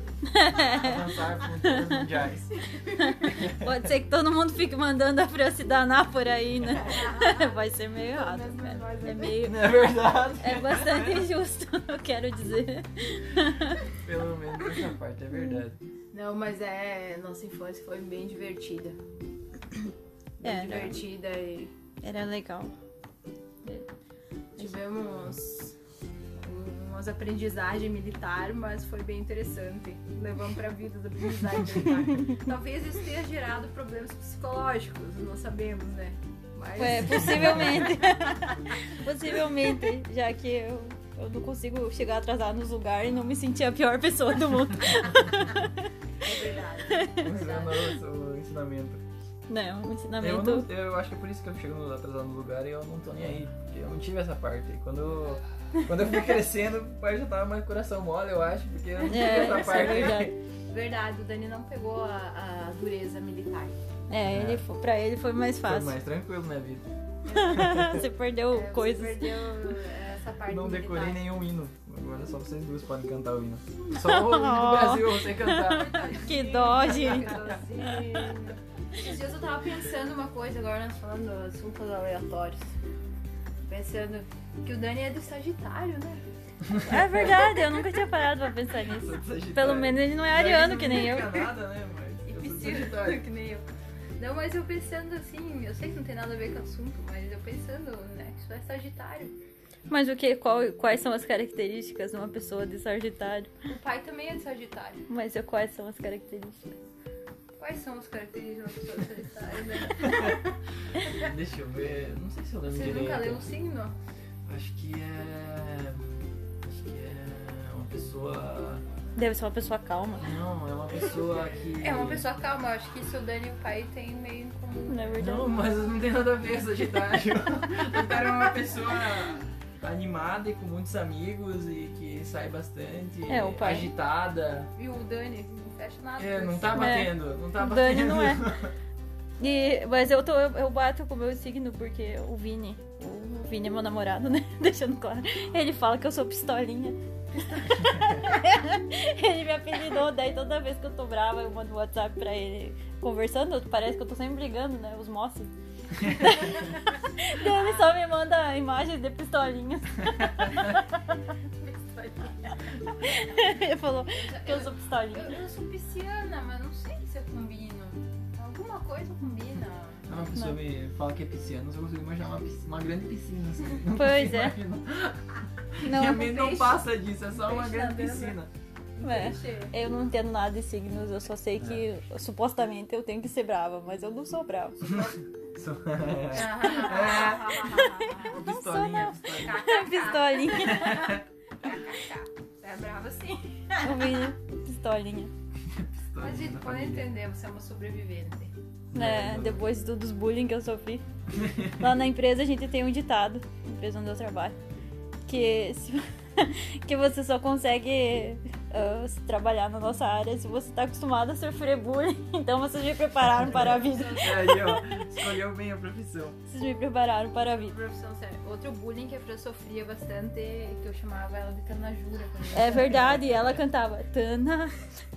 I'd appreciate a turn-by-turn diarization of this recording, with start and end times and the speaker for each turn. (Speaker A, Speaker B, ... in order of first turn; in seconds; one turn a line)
Speaker A: 0.2-2.1
Speaker B: 0.6-2.6
Speaker C: 2.6-3.2
Speaker A: 2.9-13.9
Speaker B: 3.2-3.8
Speaker C: 6.7-9.5
Speaker B: 9.4-11.3
Speaker B: 13.9-15.8
Speaker A: 15.3-15.6
Speaker C: 16.1-19.0
Speaker C: 20.4-21.7
Speaker A: 20.4-21.0
Speaker A: 22.0-22.7
Speaker C: 24.6-25.8
Speaker C: 26.4-38.0
Speaker A: 36.8-45.8
Speaker B: 36.9-38.1
Speaker C: 46.2-47.8
Speaker A: 46.9-47.3
Speaker B: 47.2-49.0
Speaker A: 49.5-50.7
Speaker B: 50.2-60.3
Speaker C: 59.0-63.8
Speaker A: 59.0-60.3
Speaker A: 64.1-66.0
Speaker B: 64.2-64.6
Speaker B: 65.6-66.9
Speaker C: 67.2-67.8
Speaker A: 67.3-69.5
Speaker B: 67.5-68.0
Speaker C: 68.5-71.2
Speaker B: 70.5-76.0
Speaker A: 73.9-78.2
Speaker C: 75.6-82.7
Speaker C: 83.7-86.2
Speaker B: 86.7-87.5
Speaker A: 86.8-91.5
Speaker B: 88.9-93.2
Speaker C: 92.3-93.7
Speaker C: 94.2-99.3
Speaker A: 99.9-103.5
Speaker C: 103.7-105.0
Speaker A: 105.1-106.7
Speaker C: 107.6-111.3
Speaker B: 110.0-110.4
Speaker B: 111.0-113.5
Speaker C: 112.7-114.0
Speaker B: 114.5-118.8
Speaker A: 119.2-120.3
Speaker B: 120.2-122.3
Speaker C: 121.8-125.4
Speaker A: 124.9-125.5
Speaker B: 125.2-134.7
Speaker A: 133.3-133.9
Speaker C: 134.8-137.0
Speaker B: 136.2-138.7
Speaker A: 136.7-138.5
Speaker A: 139.4-161.0
Speaker C: 157.4-157.9
Speaker C: 161.6-162.6
Speaker A: 163.0-165.4
Speaker C: 164.1-170.1
Speaker B: 170.1-178.5
Speaker A: 173.9-174.6
Speaker A: 175.8-176.4
Speaker C: 175.9-176.9
Speaker C: 177.4-178.4
Speaker C: 179.0-179.7
Speaker A: 179.0-185.0
Speaker B: 184.8-189.7
Speaker C: 186.3-188.4
Speaker A: 187.0-191.2
Speaker C: 189.3-194.3
Speaker B: 190.7-191.2
Speaker A: 193.8-195.3
Speaker B: 195.7-197.1
Speaker C: 196.2-198.5
Speaker B: 198.9-199.6
Speaker A: 198.9-201.0
Speaker B: 201.3-201.8
Speaker A: 201.7-204.6
Speaker A: 205.3-214.8
Speaker B: 213.4-216.4
Speaker C: 213.5-214.6
Speaker A: 216.5-217.8
Speaker C: 217.5-223.2
Speaker A: 222.5-224.8
Speaker B: 222.9-223.6